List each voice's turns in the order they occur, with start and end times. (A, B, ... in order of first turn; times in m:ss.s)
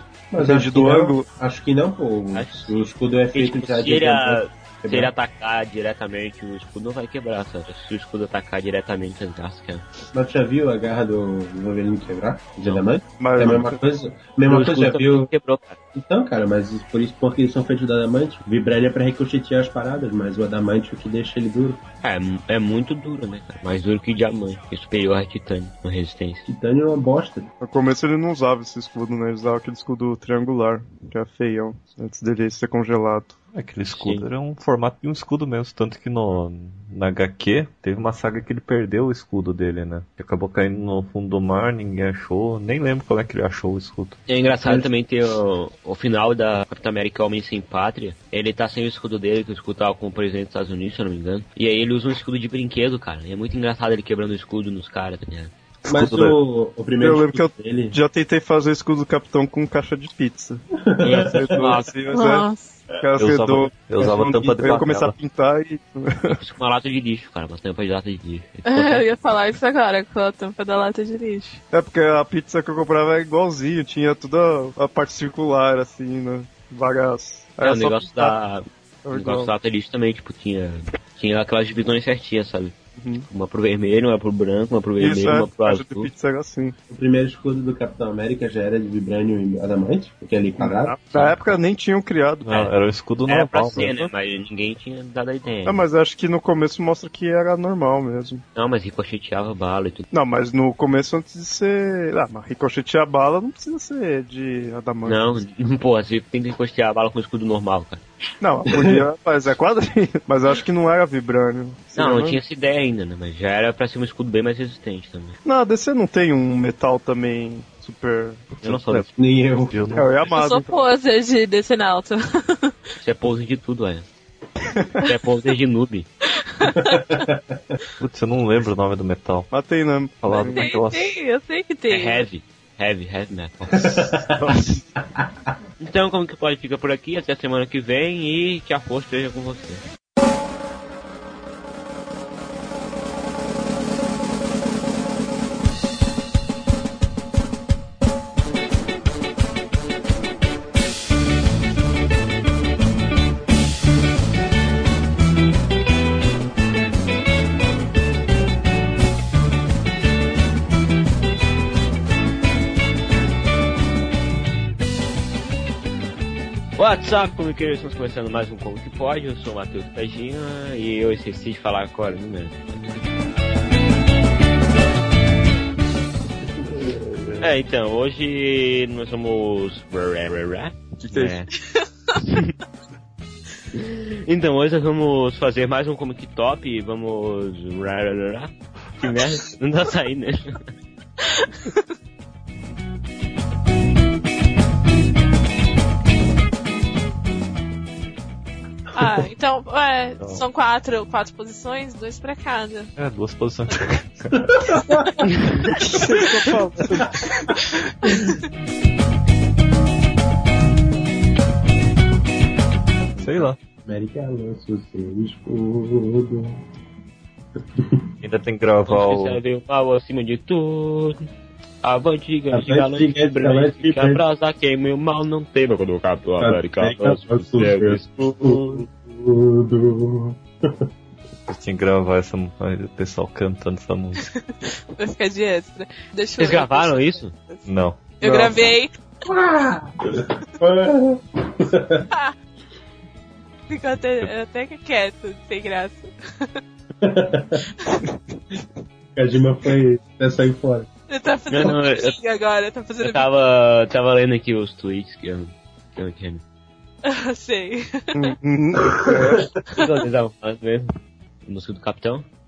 0:00.3-0:05.1 A
0:00.4-0:01.3 B
0:02.3-0:09.9 C
0:10.1-0:15.3 A
0:13.2-0:13.8 B
0:14.4-0:15.8 C
0:16.0-0:21.8 A
0:22.0-0:26.5 C
0:26.5-0:27.5 A
0:27.6-0:33.4 B
0:33.5-0:44.2 D
0:33.9-0:34.3 C
0:44.3-0:55.5 C
0:44.6-0:44.9 A
0:55.8-0:56.4 D
0:55.9-0:58.0 A
0:57.0-1:00.6 B
1:00.9-1:01.8 A
1:01.0-1:01.9 C
1:01.3-1:02.5 B
1:02.1-1:02.8 E
1:03.0-1:06.4 B
1:03.2-1:05.2 D
1:04.0-1:04.7 A
1:06.3-1:09.0 C
1:08.6-1:11.6 E
1:11.7-1:18.4 B
1:17.6-1:22.8 C
1:19.0-1:19.5 B
1:23.0-1:23.3 B
1:23.3-1:26.1 C
1:25.0-1:26.8 B
1:26.9-1:31.0 A
1:30.6-1:32.6 B
1:31.1-1:31.5 C
1:32.5-1:34.0 D
1:33.3-1:35.8 C
1:33.7-1:34.1 B
1:35.6-1:38.4 B
1:38.6-1:40.1 C
1:40.1-1:45.4 B
1:45.0-1:48.0 C
1:48.4-1:52.4 B
1:48.7-1:49.0 A
1:52.0-1:55.4 C
1:55.4-1:58.6 B
1:58.6-1:59.1 D
1:58.6-1:59.1 C
1:59.2-1:59.8 A
1:59.7-2:00.3 D
2:00.0-2:00.8 B
2:00.3-2:02.7 E
2:03.0-2:04.1 C
2:04.7-2:05.1 B
2:05.0-2:06.1 C
2:06.4-2:07.0 E
2:06.7-2:07.8 A
2:08.0-2:09.5 D
2:09.5-2:10.6 B
2:10.2-2:11.2 D
2:10.5-2:12.3 E
2:11.9-2:14.7 C
2:13.7-2:14.6 A
2:15.8-2:19.8 C
2:46.8-2:52.7 C
2:56.8-2:57.4 A
2:57.4-3:01.5 C
3:01.0-3:01.4 B
3:02.2-3:02.5 C
3:03.8-3:10.5 C
3:11.4-3:11.8 E
3:19.0-3:22.9 E
3:23.0-3:24.6 D
3:24.5-3:25.1 A
3:25.8-3:27.1 B
3:27.0-3:27.4 A
3:33.2-3:33.6 D
3:33.9-3:36.6 A
3:37.8-3:38.0 A
3:38.2-3:39.4 D
3:38.9-3:41.3 C
3:41.8-3:48.9 C
3:42.5-3:44.2 A
3:46.4-3:50.8 A
3:51.5-3:54.3 D
3:54.3-3:57.7 E
3:56.4-3:57.3 C
3:57.7-3:58.0 D
3:58.2-3:59.0 E
3:58.2-3:58.6 B
3:59.3-4:02.1 A
4:03.7-4:06.6 E
4:07.0-4:07.6 A
4:09.2-4:10.9 A
4:11.1-4:13.3 E
4:11.5-4:12.2 C
4:13.0-4:16.4 C
4:17.0-4:18.4 E
4:18.2-4:19.5 B
4:18.8-4:19.5 A
4:19.8-4:20.9 C
4:21.4-4:22.3 C